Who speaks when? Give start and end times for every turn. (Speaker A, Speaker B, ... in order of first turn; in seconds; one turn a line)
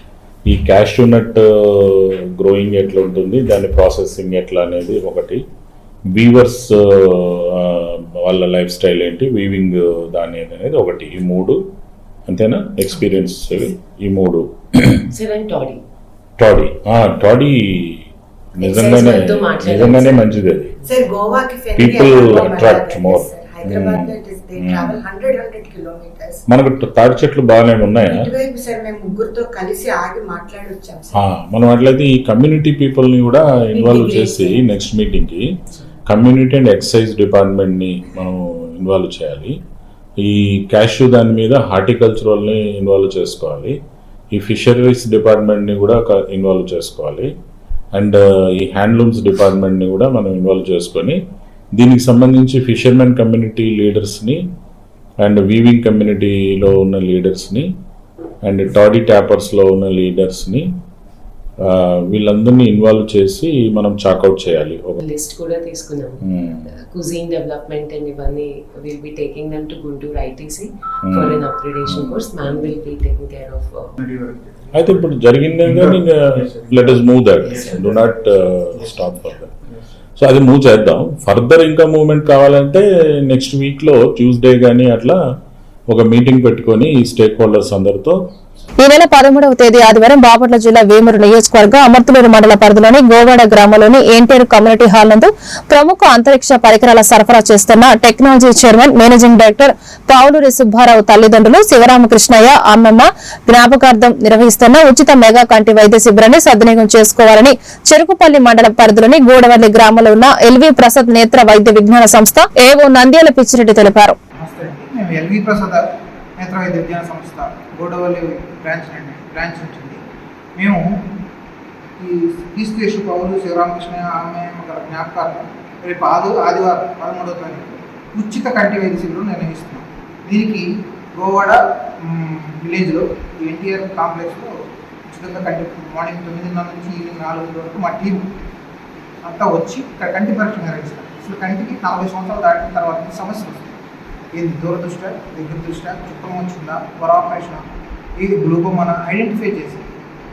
Speaker A: 0.5-5.4
Speaker A: 6.2-11.6
Speaker A: 12.3-15.1
Speaker B: 15.1-15.8
Speaker A: 16.4-18.0
Speaker B: 18.6-20.3
Speaker A: 18.6-20.7
Speaker C: 20.8-26.4
Speaker A: 21.7-25.0
Speaker A: 26.5-28.3
Speaker C: 28.0-31.1
Speaker A: 31.1-35.4
Speaker B: 33.7-34.6
Speaker A: 36.1-39.5
Speaker A: 40.2-43.7
Speaker A: 44.3-47.3
Speaker A: 47.9-51.1
Speaker A: 51.8-54.4
Speaker A: 55.2-57.6
Speaker A: 58.5-60.6
Speaker A: 61.7-65.0
Speaker B: 65.0-66.2
Speaker A: 66.2-66.6
Speaker B: 66.7-73.9
Speaker A: 71.0-72.2
Speaker A: 74.7-79.5
Speaker A: 80.2-85.2
Speaker A: 85.9-88.1
Speaker D: 88.8-114.2
Speaker E: 114.4-115.8
Speaker E: 116.4-120.0
Speaker E: 120.5-120.9
Speaker E: 122.0-134.5
Speaker E: 135.1-138.3
Speaker E: 139.2-143.8
Speaker E: 144.3-149.9